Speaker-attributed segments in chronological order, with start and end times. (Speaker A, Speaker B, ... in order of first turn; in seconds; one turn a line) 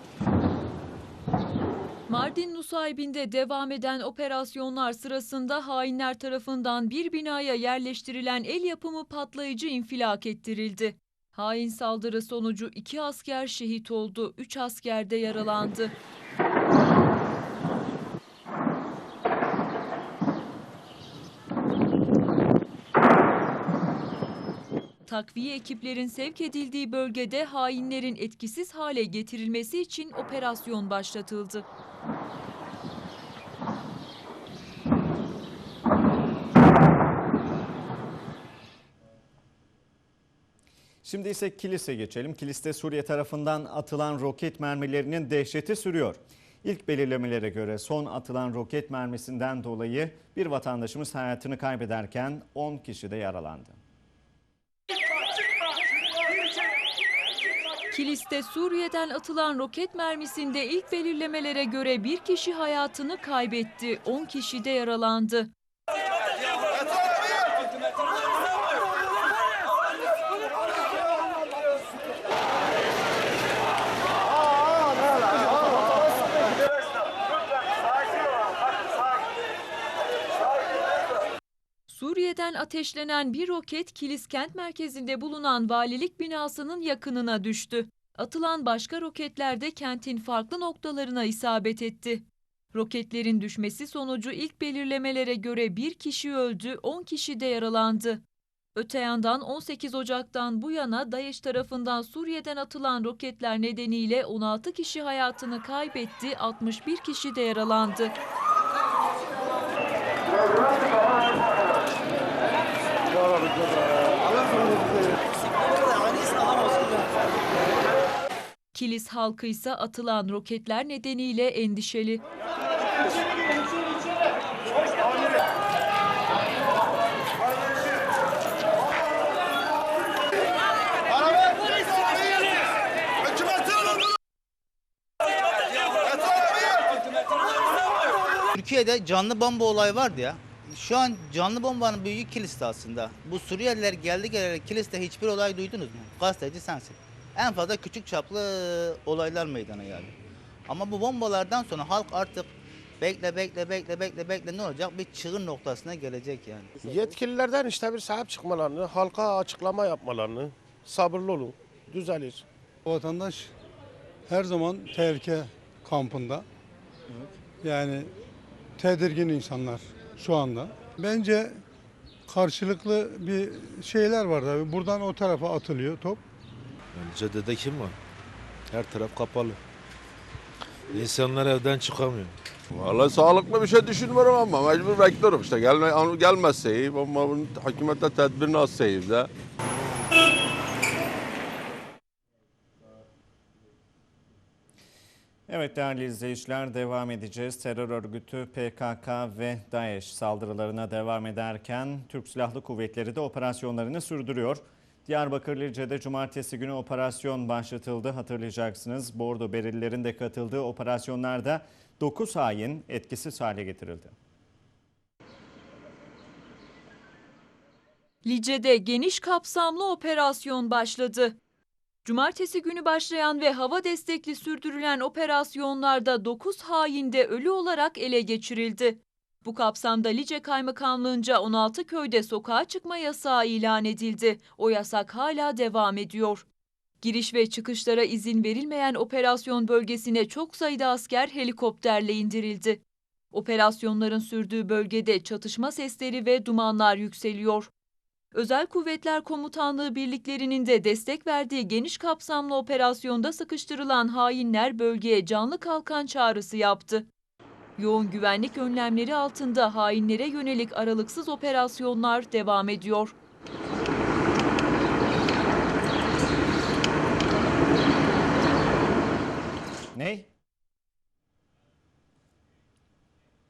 Speaker A: 2.1-15.9
Speaker A: 25.1-31.7
Speaker B: 41.0-53.8
Speaker A: 57.9-65.5
Speaker A: 81.9-98.2
Speaker A: 98.8-108.2
Speaker A: 118.7-122.2
Speaker C: 138.6-150.2
Speaker C: 150.7-156.7
Speaker D: 156.8-162.4
Speaker E: 162.9-163.5
Speaker E: 164.3-166.5
Speaker E: 167.6-168.1
Speaker E: 168.8-171.6
Speaker E: 172.3-176.2
Speaker F: 176.9-177.9
Speaker F: 178.7-179.6
Speaker F: 180.9-182.3
Speaker G: 182.7-189.3
Speaker B: 195.5-214.1
Speaker A: 218.2-221.4
Speaker A: 222.1-236.4
Speaker A: 237.0-242.8
Speaker A: 243.3-247.7
Speaker A: 248.3-257.1
Speaker A: 257.8-263.1
Speaker B: 269.9-270.3